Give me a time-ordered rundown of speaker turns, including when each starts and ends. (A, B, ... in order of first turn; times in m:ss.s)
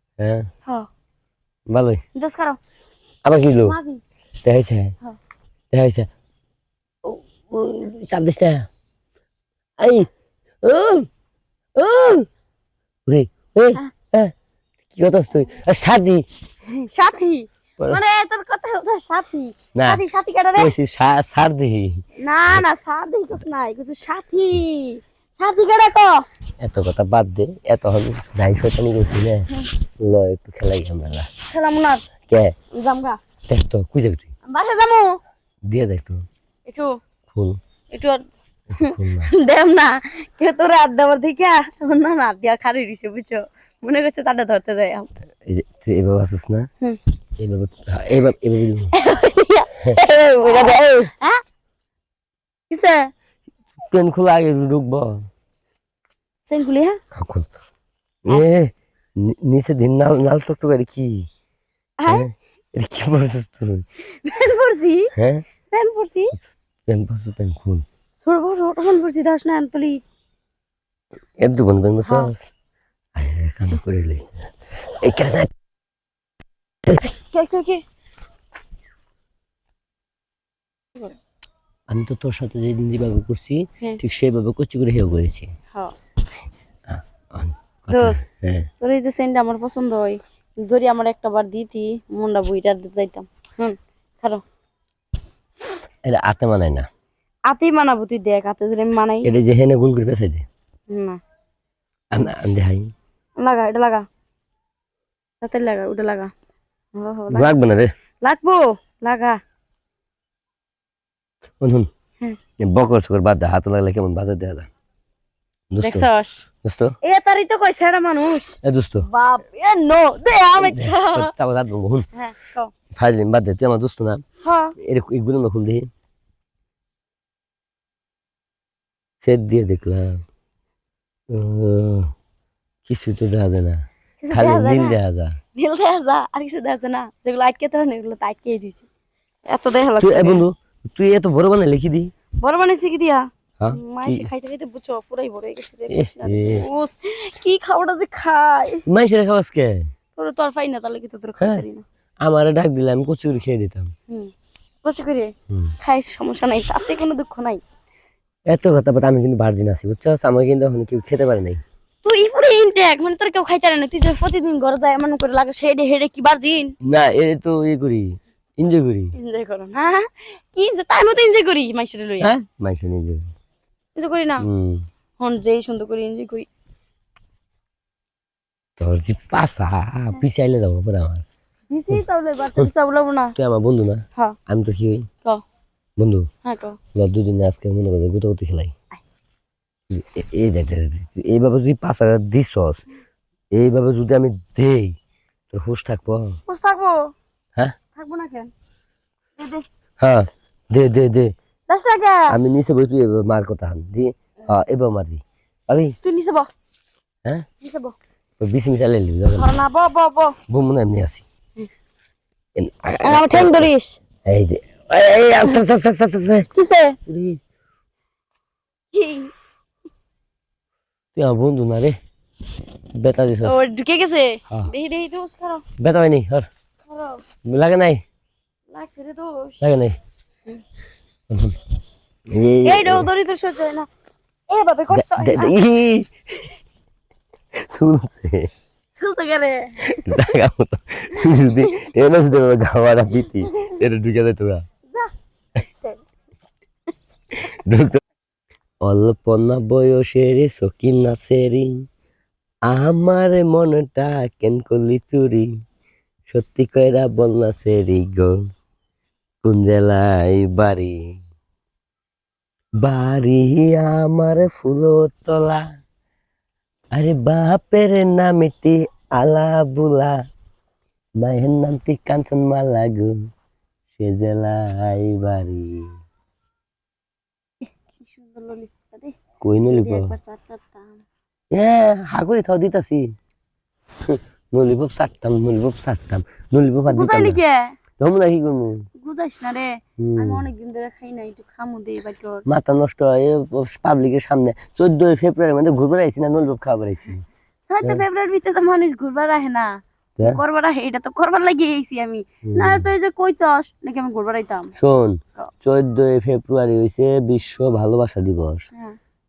0:00.2-0:00.5 A
0:01.7-0:02.0 A
0:02.2-0:02.6 B
0:03.2-0:03.8 A
0:03.6-0:04.0 B
0:04.4-0:05.0 A
0:05.7-0:06.1 A
0:07.0-0:08.7 A
0:09.8-0:10.1 A
0:10.6-0:11.1 A
0:11.8-0:12.3 A
0:13.1-0:14.3 A
0:14.9-0:16.2 A
0:16.8-0:20.7 B
0:19.8-0:20.0 A
0:20.6-0:22.6 A
0:22.2-0:26.2 B
0:26.6-0:29.5 A
0:30.0-0:31.3 A
0:31.5-0:32.0 B
0:32.3-0:32.5 A
0:32.7-0:33.2 B
0:33.5-0:34.3 A
0:34.5-0:35.2 B
0:35.7-0:36.2 A
0:36.7-0:37.0 B
0:37.3-0:37.6 A
0:37.9-0:38.2 B
0:38.8-0:45.1 B
0:38.8-0:39.3 A
0:45.4-0:46.7 A
0:47.4-0:48.9 A
0:48.9-0:51.4 B
0:49.8-0:51.1 A
0:52.7-0:53.1 B
0:53.8-0:55.2 A
0:56.5-0:57.0 B
0:57.1-0:57.5 A
0:58.2-1:01.3 A
1:02.0-1:02.3 B
1:02.1-1:03.8 A
1:04.2-1:05.1 B
1:05.2-1:05.4 A
1:05.7-1:06.4 B
1:06.9-1:07.8 A
1:08.2-1:10.0 B
1:11.4-1:12.4 A
1:12.0-1:12.3 B
1:13.2-1:14.3 A
1:14.9-1:15.5 A
1:17.3-1:17.8 B
1:21.9-1:25.5 A
1:26.9-1:28.7 A
1:27.9-1:28.2 B
1:28.8-1:34.4 B
1:36.0-1:36.9 A
1:37.5-1:39.3 B
1:39.2-1:40.5 A
1:40.9-1:41.2 B
1:42.1-1:42.9 A
1:43.4-1:44.0 B
1:45.4-1:46.3 B
1:47.0-1:47.5 B
1:47.3-1:47.9 A
1:48.2-1:49.4 B
1:51.6-1:51.9 A
1:52.6-1:54.7 A
1:55.7-1:56.1 A
1:55.8-1:56.4 B
1:56.6-1:57.0 A
1:57.0-2:01.3 B
1:58.6-1:59.1 A
2:00.6-2:02.1 A
2:02.1-2:02.7 B
2:03.0-2:04.2 A
2:04.4-2:04.8 B
2:04.8-2:05.9 A
2:09.2-2:10.2 A
2:11.3-2:12.1 A
2:12.8-2:15.4 A
2:14.2-2:15.0 B
2:15.6-2:18.9 B
2:19.5-2:20.4 B
2:20.0-2:22.1 A
2:22.4-2:28.8 B
2:23.6-2:24.3 A
2:25.9-2:26.6 A
2:28.9-2:29.9 A
2:30.2-2:31.8 B
2:31.4-2:31.6 A
2:32.2-2:33.9 A
2:34.8-2:37.6 B
2:38.5-2:41.6 A
2:42.0-2:46.8 B
2:46.8-2:49.1 A
2:49.2-2:52.3 B
2:52.2-2:53.3 A
2:54.0-2:54.5 B
2:54.4-2:54.9 A
2:55.2-2:56.5 B
2:58.8-3:01.2 A
3:01.7-3:03.4 B
3:03.4-3:05.1 A
3:06.0-3:06.3 A
3:06.4-3:06.8 B
3:07.0-3:08.7 A
3:09.9-3:12.8 A
3:13.5-3:15.0 A
3:15.5-3:16.4 A
3:16.5-3:17.1 B
3:17.9-3:18.5 B
3:19.4-3:19.6 B
3:20.0-3:21.3 A
3:21.7-3:22.4 B
3:22.3-3:26.0 A
3:26.0-3:26.5 B
3:27.6-3:28.0 B
3:28.4-3:29.5 A
3:29.4-3:30.4 B
3:30.5-3:31.2 A
3:32.6-3:33.7 A
3:33.0-3:34.0 B
3:34.3-3:36.5 A
3:36.6-3:37.0 B
3:37.1-3:37.4 A
3:38.9-3:39.3 B
3:41.2-3:42.0 A
3:43.0-3:43.6 A
3:43.4-3:45.6 B
3:45.8-3:46.5 A
3:46.9-3:47.2 B
3:47.4-3:48.0 A
3:48.7-3:49.7 B
3:49.6-3:50.0 A
3:51.3-3:51.6 A
3:52.3-3:53.1 A
3:52.6-3:53.9 B
3:54.5-3:55.6 B
3:54.9-3:56.5 A
3:57.6-3:58.5 A
3:59.0-4:00.4 B
3:59.9-4:04.6 A
4:01.4-4:01.8 B
4:03.4-4:03.8 B
4:04.9-4:06.0 B
4:07.5-4:08.0 A
4:08.8-4:11.9 A
4:12.7-4:15.5 A
4:16.3-4:18.4 A
4:19.4-4:21.2 A
4:22.8-4:25.6 A
4:26.9-4:30.2 A
4:31.2-4:33.3 A
4:33.9-4:35.9 A
4:37.9-4:41.0 B
4:39.4-4:40.1 A
4:41.5-4:43.1 A
4:44.0-4:47.4 A
4:46.9-4:47.8 B
4:48.0-4:48.9 A
4:49.0-4:52.4 B
4:50.0-4:50.4 A
4:52.5-4:57.2 A
4:57.7-4:59.7 B
5:00.2-5:04.7 B
5:02.4-5:02.9 A
5:04.8-5:08.7 A